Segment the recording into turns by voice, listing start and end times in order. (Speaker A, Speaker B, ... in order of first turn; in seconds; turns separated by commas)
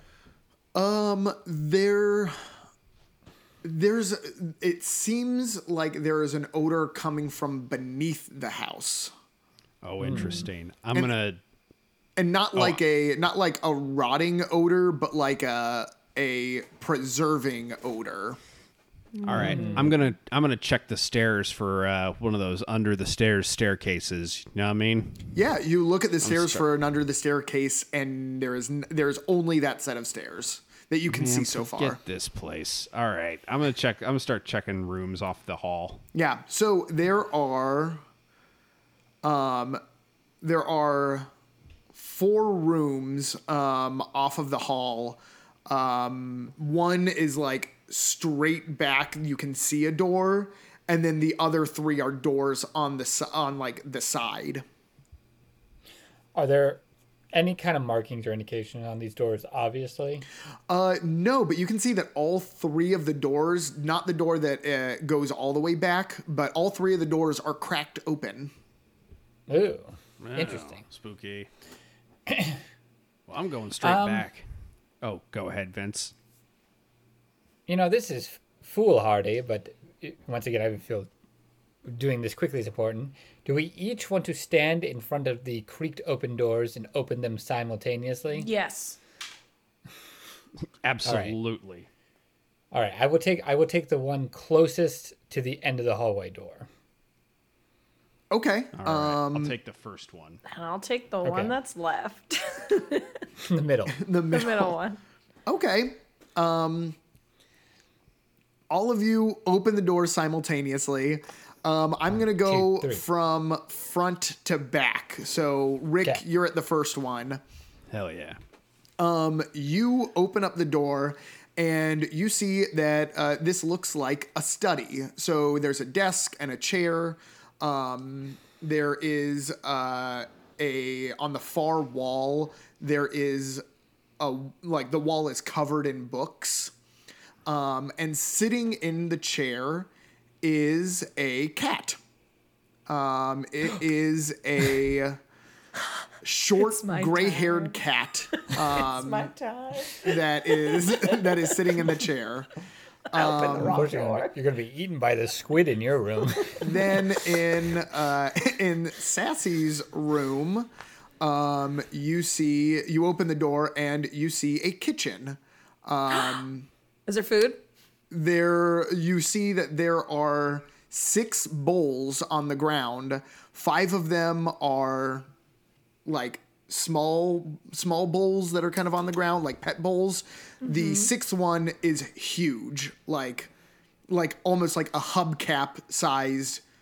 Speaker A: 0.7-2.3, Speaker A: 3.6-9.1, Speaker B: 9.8-11.4, Speaker C: 10.0-10.4, Speaker A: 12.2-18.4, Speaker B: 12.5-12.8, Speaker D: 19.1-19.9, Speaker B: 19.2-25.3, Speaker C: 19.3-19.9, Speaker A: 25.3-32.0, Speaker B: 26.2-26.6, Speaker B: 31.1-36.0, Speaker A: 36.1-38.0, Speaker A: 39.2-39.8, Speaker A: 40.4-41.3, Speaker A: 41.9-54.6, Speaker C: 56.3-56.8, Speaker C: 57.3-60.2, Speaker A: 60.7-68.5, Speaker C: 69.5-70.8, Speaker B: 70.2-71.5, Speaker C: 72.3-72.6, Speaker B: 73.3-74.4, Speaker C: 73.8-74.2, Speaker B: 75.0-76.1, Speaker C: 77.7-81.1, Speaker C: 81.8-88.5, Speaker D: 88.3-89.0, Speaker B: 90.8-91.9, Speaker C: 91.0-91.3, Speaker C: 92.7-96.7, Speaker A: 98.3-99.5, Speaker B: 98.7-100.4, Speaker D: 100.5-103.2, Speaker C: 101.2-101.5, Speaker C: 103.4-104.0, Speaker A: 104.0-104.7, Speaker D: 104.3-105.0, Speaker A: 105.5-107.0, Speaker A: 108.7-117.4, Speaker C: 112.4-113.0, Speaker B: 117.9-118.4, Speaker A: 119.0-133.6, Speaker A: 134.2-136.7, Speaker A: 137.4-139.9, Speaker A: 140.4-142.0, Speaker A: 142.9-145.2, Speaker A: 146.2-149.3, Speaker D: 146.6-147.8, Speaker D: 148.4-152.0, Speaker A: 149.9-152.5, Speaker A: 153.1-153.8, Speaker D: 153.1-154.3, Speaker C: 153.6-156.7, Speaker A: 156.6-160.7, Speaker A: 161.2-166.7, Speaker D: 167.1-167.6, Speaker A: 168.1-175.3, Speaker A: 176.1-183.5, Speaker D: 180.6-181.1, Speaker A: 184.1-186.6